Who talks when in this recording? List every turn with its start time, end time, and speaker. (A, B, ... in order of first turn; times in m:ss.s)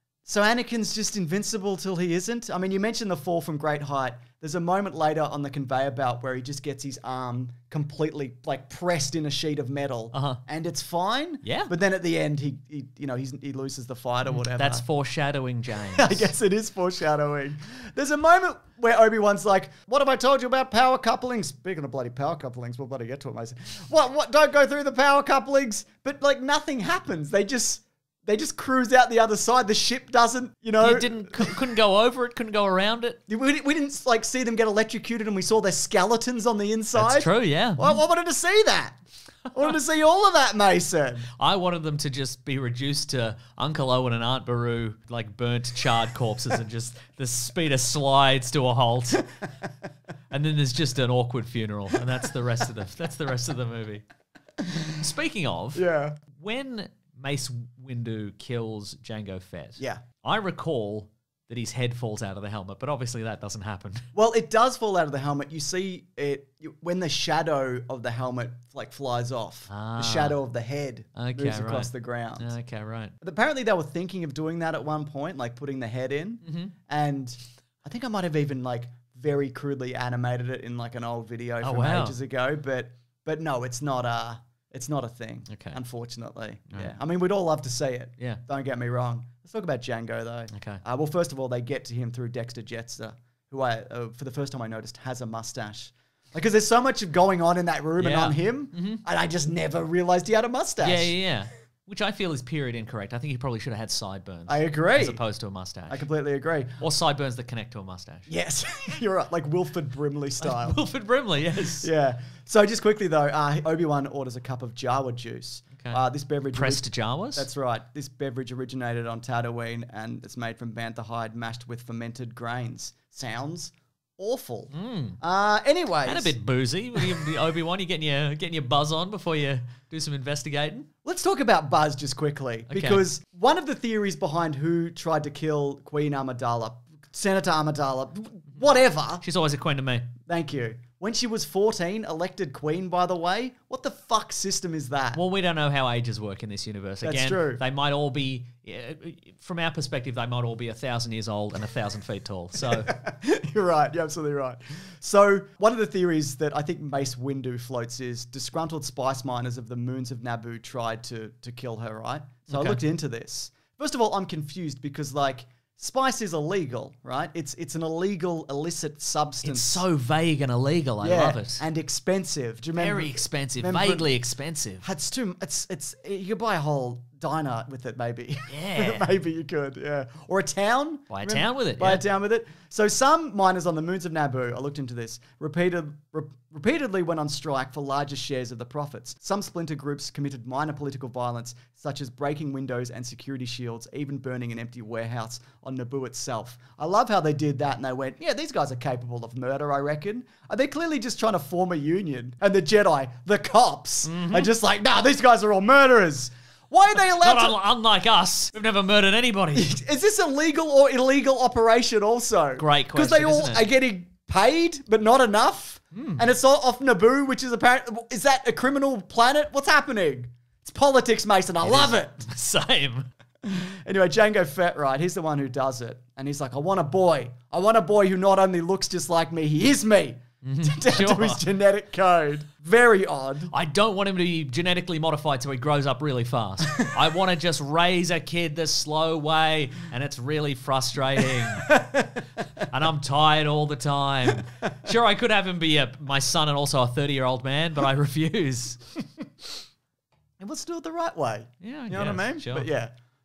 0:00.2-0:14.8 A
0:10.1-0:10.4 B
0:11.4-0:11.7 B
0:14.3-0:16.3 B
0:16.0-0:31.6 A
0:30.8-0:33.2 B
0:33.3-0:41.3 A
0:37.0-0:38.0 B
0:41.4-0:49.3 B
0:50.3-0:54.0 B
0:54.6-0:55.0 A
0:55.0-1:04.0 B
0:55.8-0:56.2 A
1:04.1-1:12.5 A
1:09.7-1:10.4 B
1:11.2-1:13.2 B
1:13.2-1:41.1 A
1:16.4-1:16.7 B
1:21.6-1:22.2 B
1:25.5-1:25.8 B
1:30.5-1:30.8 B
1:38.0-1:39.0 B
1:40.8-1:46.0 B
1:44.5-1:45.2 A
1:45.9-1:46.8 A
1:46.8-1:48.3 B
1:48.3-1:50.8 A
1:50.4-1:51.9 B
1:51.8-2:06.4 A
1:56.5-1:57.5 B
2:04.7-2:05.2 B
2:06.0-2:10.9 B
2:11.0-2:19.2 A
2:12.7-2:13.0 B
2:19.2-2:20.1 B
2:20.3-2:25.2 A
2:25.1-2:32.9 B
2:27.0-2:27.6 A
2:32.6-2:49.8 A
2:42.5-2:42.8 B
2:49.4-2:51.6 B
2:51.0-2:54.1 A
2:52.8-2:54.8 B
2:54.8-3:27.6 A
2:58.5-2:59.1 B
3:01.1-3:02.0 B
3:24.0-3:24.5 B
3:27.0-3:29.7 B
3:29.5-3:42.2 A
3:32.6-3:33.7 B
3:35.9-3:36.2 B
3:41.6-3:43.1 B
3:43.4-3:53.5 A
3:50.4-3:51.4 B
3:53.5-4:01.8 B
3:56.7-3:57.0 A
4:01.4-4:02.7 A
4:02.6-4:08.8 B
4:10.4-4:12.9 A
4:11.6-4:12.7 B